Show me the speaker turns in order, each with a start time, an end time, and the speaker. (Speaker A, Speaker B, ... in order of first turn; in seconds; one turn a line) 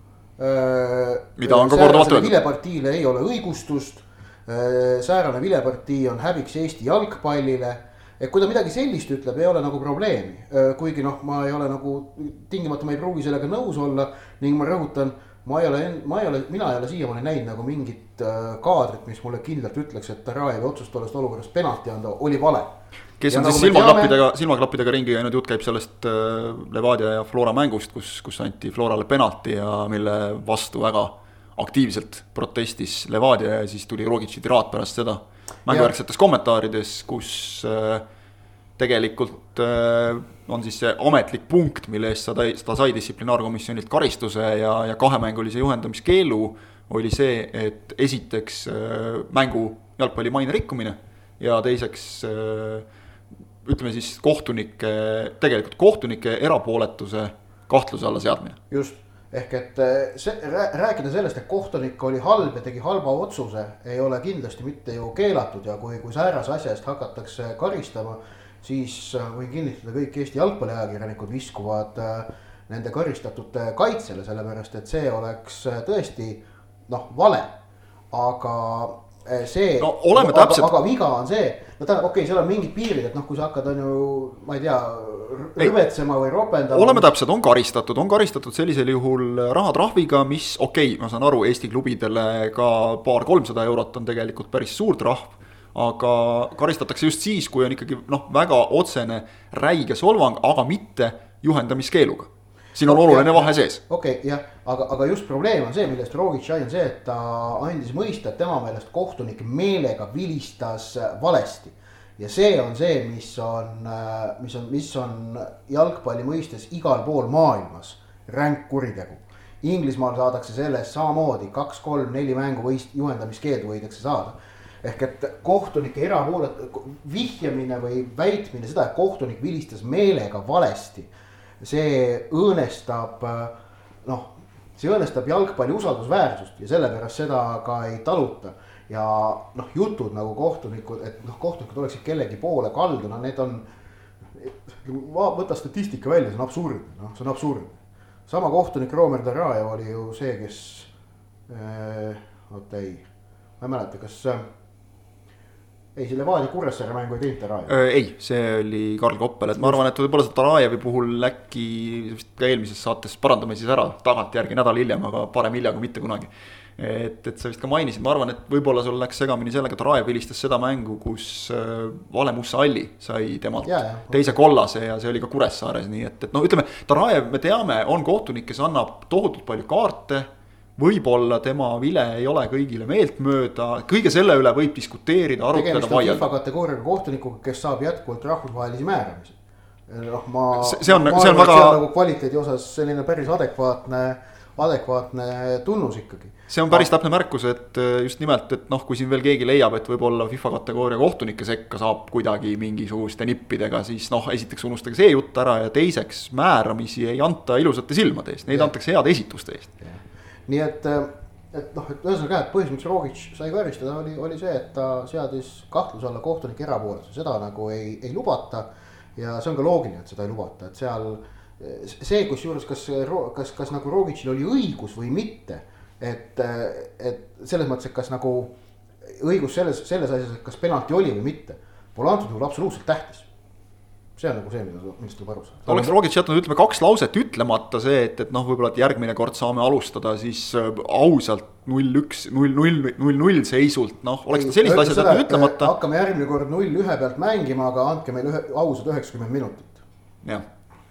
Speaker A: 0.4-22.7
Speaker B: 1.4-2.4
Speaker B: 23.2-38.0
Speaker A: 23.3-24.2
Speaker A: 35.7-35.9
Speaker B: 38.8-52.9
Speaker B: 53.6-58.6
Speaker A: 58.7-77.6
Speaker A: 78.1-87.1
Speaker B: 79.8-80.7
Speaker B: 86.7-103.8
Speaker A: 102.9-131.1
Speaker A: 131.6-133.5
Speaker A: 134.1-143.7
Speaker A: 144.4-150.9
Speaker A: 151.5-153.1
Speaker A: 153.6-154.4
Speaker A: 155.9-157.7
Speaker B: 157.7-186.3
Speaker A: 173.6-174.4
Speaker A: 185.5-189.4
Speaker A: 189.9-196.9
Speaker B: 190.6-191.8
Speaker B: 196.5-209.7
Speaker A: 209.8-228.5
Speaker A: 229.1-233.3
Speaker A: 234.2-235.9
Speaker B: 235.7-245.7
Speaker A: 244.3-249.8